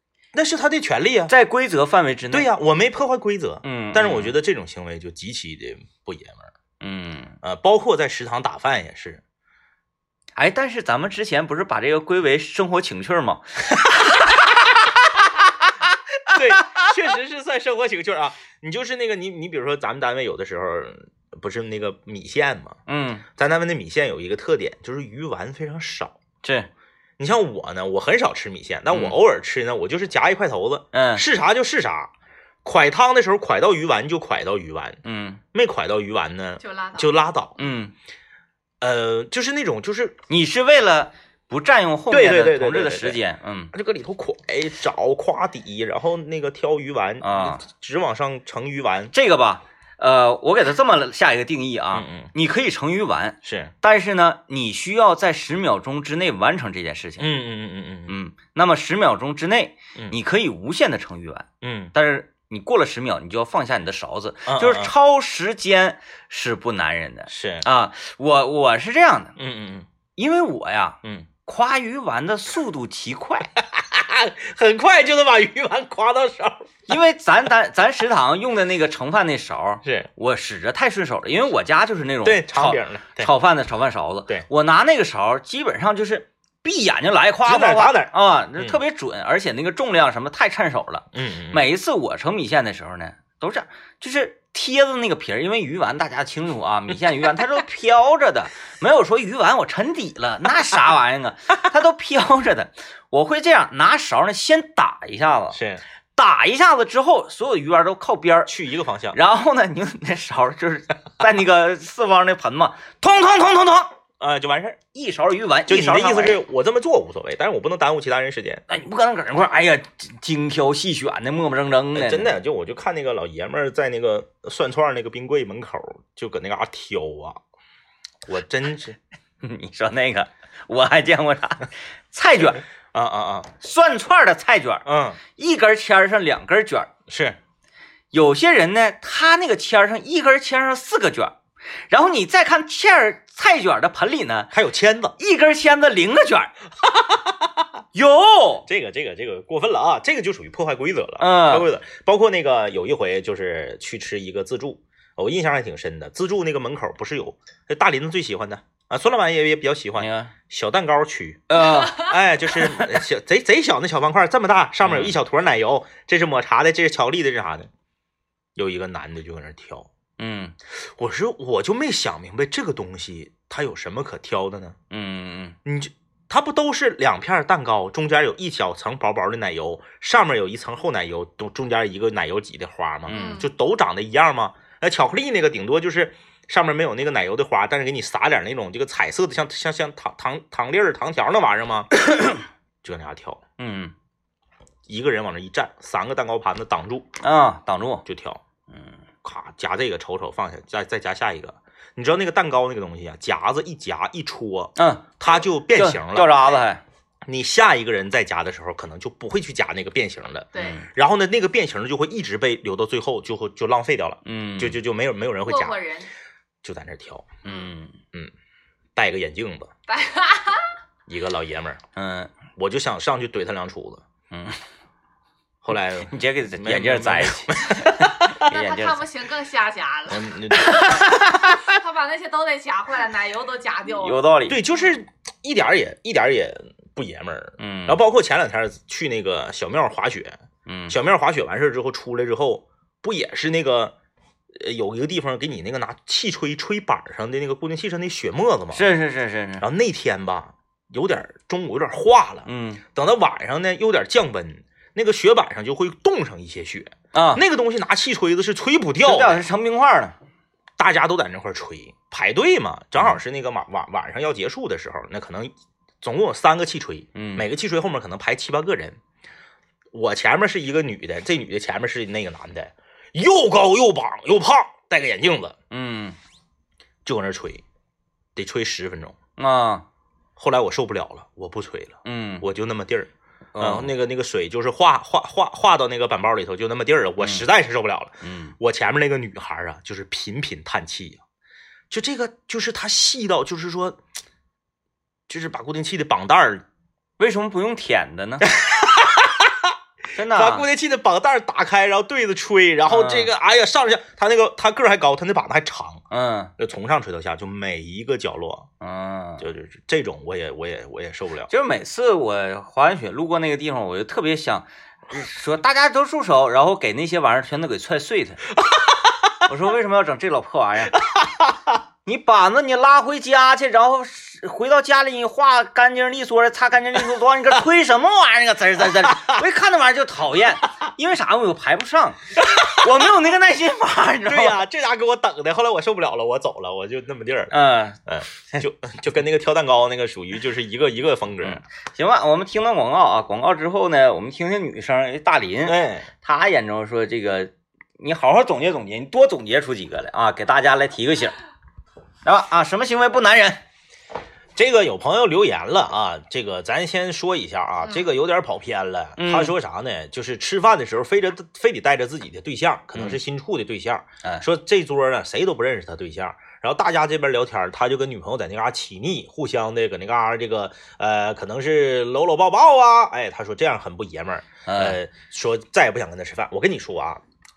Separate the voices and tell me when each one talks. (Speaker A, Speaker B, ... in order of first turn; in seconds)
Speaker A: 0.3-1.3, 2.3-6.5, 7.4-9.2, 16.3-22.8, 23.4-26.2, 27.2-32.1, 32.6-35.0, 35.5-37.6, 38.8-40.2, 42.1-43.2, 43.7-49.1, 51.9-52.3, 53.4-53.7, 57.2-58.1, 61.6-61.9, 64.5-64.9, 67.3-67.7, 69.4-69.9, 71.0-71.3, 73.7-76.8, 79.8-80.1, 82.2-83.3, 87.5-88.8, 91.1-91.6, 105.5-105.8, 108.5-109.2, 114.2-114.8, 115.7-118.6, 121.9-127.4, 128.3-129.0, 132.4-133.5, 134.9-135.2, 137.1-137.4, 144.5-145.2, 146.8-147.7, 148.7-167.7, 168.6-169.9, 170.8-174.8, 175.7-191.9, 192.8-193.4, 194.9-197.1, 198.1-198.4, 199.2-206.4, 207.3-215.8, 216.6-217.4, 219.0-219.7, 221.1-221.8, 222.6-224.0, 225.6-228.5, 230.1-231.6, 234.5-243.9, 244.6-248.8, 249.6-259.4, 260.8-269.0, 269.9-275.6, 277.1-277.6, 278.4-279.2, 280.4-291.2, 291.9-294.0, 295.3-296.6, 298.4-306.0, 306.6-308.7, 309.4-311.5, 318.7-319.3, 321.0-321.8, 329.0-329.4, 332.4-332.9, 334.3-337.5, 338.1-341.6, 345.7-346.1, 354.6-377.2
Speaker B: 1.3-2.5, 3.6-4.4, 6.8-7.4, 10.4-13.9, 16.3-16.9, 22.9-23.2, 26.4-26.7, 28.9-29.2, 30.9-31.2, 35.0-35.4, 37.6-37.9, 40.3-43.7, 47.2-47.6, 49.1-57.3, 58.1-69.3, 70.2-73.5, 76.9-105.6, 106.2-108.5, 109.1-113.9, 114.9-116.4, 118.7-122.3, 129.4-132.6, 133.6-136.9, 138.1-141.4, 141.9-144.5, 145.2-146.5, 147.9-148.7, 151.2-151.7, 160.0-160.3, 161.5-162.1, 164.8-165.2, 170.2-170.6, 174.9-175.6, 183.1-183.5, 192.1-192.4, 193.6-193.9, 197.2-198.1, 204.8-205.1, 205.7-206.8, 210.6-210.9, 214.2-214.8, 217.4-218.0, 222.0-222.3, 224.3-224.6, 226.1-229.0, 230.6-231.2, 234.0-234.6, 237.6-238.0, 240.7-241.0, 248.7-249.7, 252.5-252.8, 257.1-257.4, 259.0-260.2, 267.1-267.5, 275.7-276.2, 279.4-279.9, 282.1-282.4, 283.5-283.9, 287.2-287.4, 288.2-288.5, 297.2-298.5, 300.1-300.7, 302.9-303.3, 306.1-306.5, 308.8-309.5, 311.5-318.4, 319.5-321.0, 322.1-334.6, 337.5-338.0, 341.4-351.4, 352.2-353.6, 359.2-359.5, 374.7-375.0
Speaker C: 36.6-37.1, 161.7-162.1, 183.1-183.5, 210.5-210.9, 215.5-216.1, 217.4-217.7, 219.9-220.7, 228.3-234.9